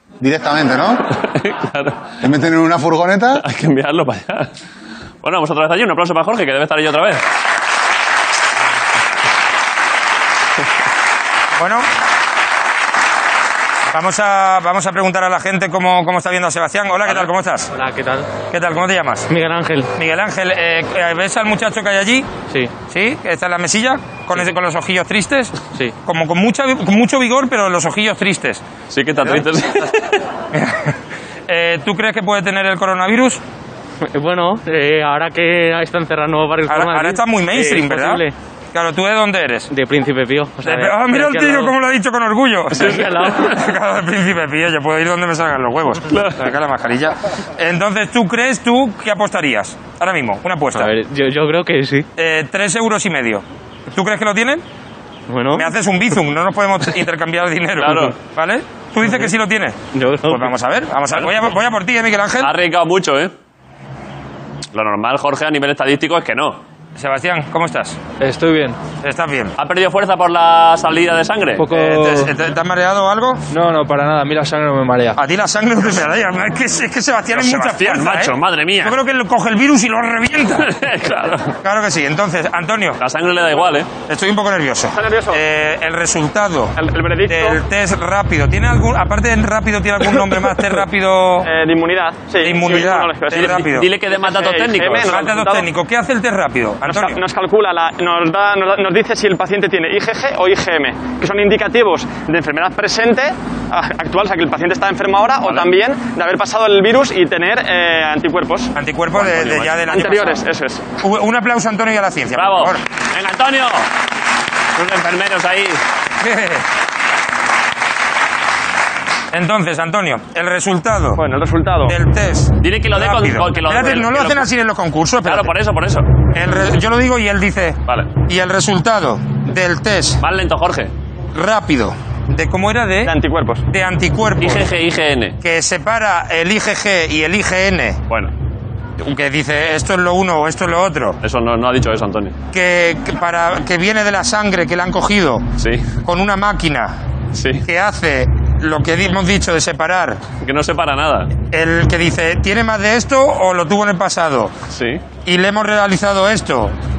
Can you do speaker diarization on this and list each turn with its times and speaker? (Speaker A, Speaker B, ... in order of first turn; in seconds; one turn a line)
Speaker A: 0.2-1.1
Speaker B: 1.1-2.1
Speaker A: 2.2-3.4
Speaker B: 3.3-4.5
Speaker B: 5.2-7.2
Speaker C: 11.6-11.8
Speaker C: 13.9-17.7
Speaker D: 17.7-18.4
Speaker C: 18.4-19.3
Speaker D: 19.3-19.9
Speaker C: 20.0-22.2
Speaker C: 22.9-28.6
Speaker B: 28.9-30.2
Speaker C: 30.5-30.9
Speaker C: 31.5-33.4
Speaker D: 34.0-38.3
Speaker C: 36.7-39.7
Speaker D: 39.7-41.8
Speaker C: 40.6-50.9
Speaker B: 42.7-43.6
Speaker D: 42.8-43.5
Speaker B: 46.1-46.5
Speaker D: 50.7-52.0
Speaker C: 52.2-53.4
Speaker C: 53.9-54.6
Speaker D: 55.3-55.7
Speaker C: 55.5-62.5
Speaker B: 57.8-58.1
Speaker D: 59.9-60.5
Speaker B: 62.4-63.3
Speaker B: 64.7-66.6
Speaker C: 67.0-68.0
Speaker E: 68.2-68.8
Speaker C: 69.0-69.5
Speaker B: 69.6-71.7
Speaker E: 71.6-72.3
Speaker C: 71.7-73.4
Speaker E: 73.5-75.2
Speaker C: 75.2-80.7
Speaker B: 77.3-79.0
Speaker B: 80.5-81.5
Speaker C: 81.6-83.0
Speaker B: 83.0-83.9
Speaker C: 84.1-86.7
Speaker F: 85.0-85.4
Speaker F: 86.8-87.6
Speaker C: 87.3-91.5
Speaker F: 91.4-93.6
Speaker C: 92.4-93.9
Speaker B: 93.3-95.2
Speaker F: 94.2-95.7
Speaker C: 95.0-97.2
Speaker F: 96.8-108.7
Speaker B: 105.4-105.7
Speaker C: 108.7-110.4
Speaker B: 109.1-109.7
Speaker F: 109.9-110.8
Speaker C: 111.0-112.8
Speaker B: 112.3-113.9
Speaker B: 114.7-115.8
Speaker C: 116.2-116.6
Speaker C: 119.3-121.2
Speaker F: 121.2-122.0
Speaker C: 121.9-125.5
Speaker B: 122.6-124.5
Speaker B: 125.2-126.1
Speaker C: 126.3-130.2
Speaker B: 130.2-130.9
Speaker C: 131.3-133.1
Speaker F: 133.0-133.6
Speaker C: 133.7-134.6
Speaker B: 134.4-135.4
Speaker C: 135.4-138.0
Speaker C: 139.0-141.2
Speaker B: 141.2-142.4
Speaker C: 142.5-145.4
Speaker B: 145.6-145.9
Speaker C: 146.0-147.0
Speaker B: 147.3-147.7
Speaker C: 147.6-150.2
Speaker B: 150.4-151.3
Speaker C: 151.5-154.5
Speaker B: 154.7-155.0
Speaker C: 155.2-156.7